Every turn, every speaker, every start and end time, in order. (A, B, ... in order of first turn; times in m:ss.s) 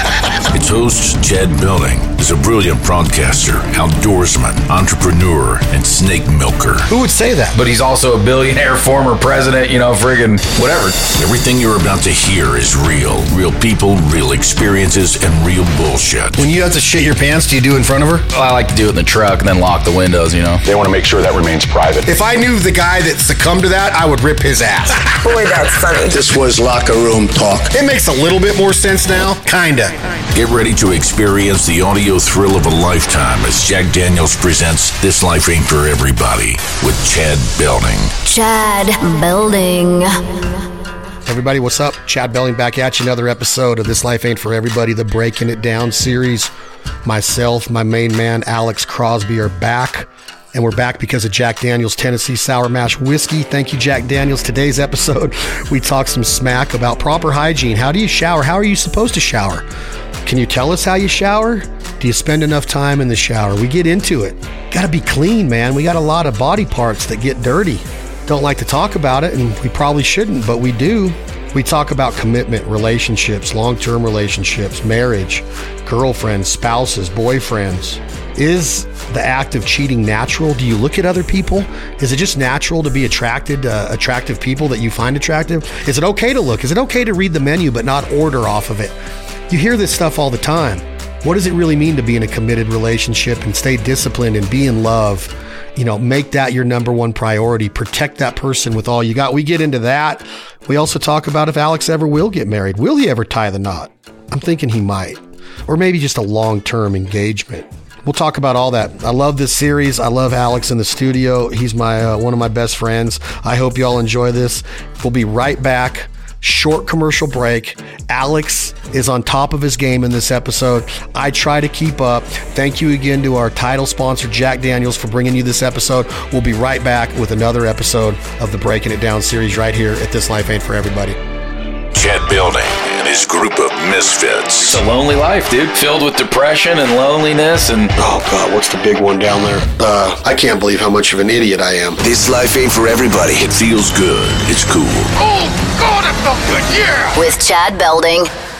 0:00.5-0:06.9 A
0:06.9-0:07.6 B
0:07.6-0:11.0 C
0:11.1-0:16.4 A
0:16.4-0:18.3 B
0:18.3-0:20.6 C
0:20.6-0:22.1 D
0:22.1-0:25.1 B
0:25.2-0:27.7 D
0:27.7-0:30.0 B
0:30.3-0:38.1 A
0:38.2-0:40.4 E
0:41.3-0:46.5 B
0:47.0-0:59.7 B
1:00.2-1:29.0 B
1:29.5-2:11.2 B
2:11.9-2:14.8 A
2:14.6-2:17.9 C
2:18.0-2:22.0 B
2:22.0-2:25.2 A
2:26.8-2:27.1 A
2:27.1-2:28.3 E